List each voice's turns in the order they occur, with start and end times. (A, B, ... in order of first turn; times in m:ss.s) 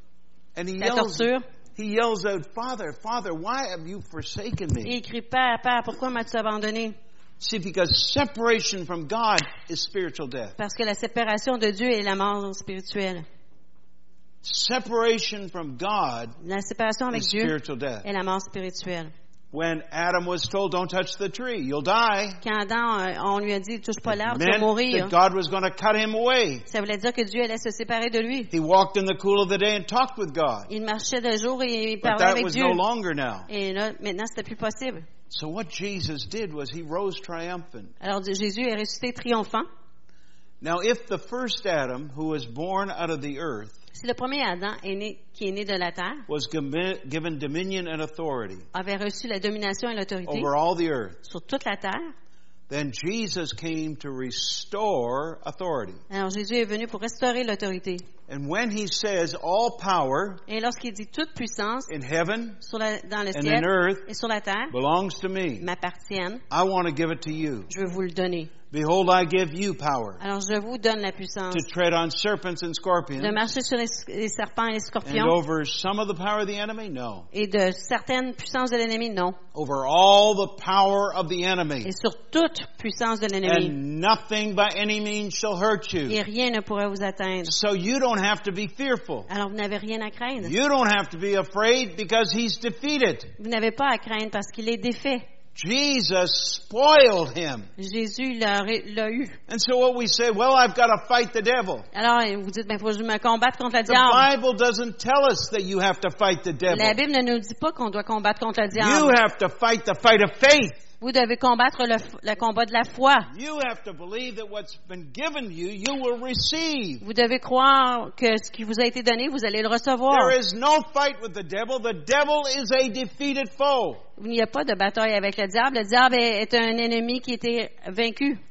0:00.5-0:04.9 A
0:00.8-0:01.4 B
0:04.8-0:07.0 B
0:07.4-0:10.6 A
0:10.6-0:13.2 B
0:14.4-0:16.4 A
0:16.4-0:19.1 B
0:17.1-0:18.0 A
0:19.5-0:22.4 A
0:22.4-0:25.1 B
0:24.1-0:26.6 A
0:26.7-0:28.5 B
0:28.5-0:30.7 A
0:30.7-0:32.8 B
0:32.0-0:33.5 A
0:33.5-0:35.1 B
0:35.3-0:37.9 A
0:38.0-0:39.7 B
0:40.6-0:43.8 A
0:43.9-0:46.2 B
0:46.3-0:48.7 A
0:48.7-0:50.5 B
0:50.2-0:51.2 A
0:51.2-0:52.1 B
0:52.7-0:56.0 A
0:56.1-0:58.0 B
0:58.3-1:00.4 A
1:00.5-1:01.9 B
1:01.9-1:02.6 A
1:02.6-1:04.7 B
1:03.3-1:04.1 A
1:04.7-1:05.7 A
1:05.6-1:06.4 B
1:06.5-1:07.7 A
1:07.7-1:08.5 B
1:08.7-1:10.2 A
1:10.2-1:11.7 B
1:11.5-1:13.4 A
1:13.2-1:15.4 B
1:15.0-1:17.3 A
1:17.3-1:19.4 B
1:19.5-1:21.9 A
1:21.8-1:23.8 B
1:23.4-1:26.2 A
1:26.1-1:27.5 B
1:27.4-1:29.3 A
1:29.3-1:30.5 B
1:30.4-1:33.3 A
1:33.4-1:35.2 B
1:35.5-1:37.7 A
1:37.8-1:39.4 B
1:39.5-1:41.9 A
1:41.9-1:44.3 B
1:43.8-1:47.0 A
1:46.7-1:49.2 B
1:48.7-1:50.8 A
1:51.0-1:53.3 B
1:53.3-1:57.0 A
1:57.0-2:00.4 B
2:00.1-2:04.0 A
2:04.2-2:08.4 B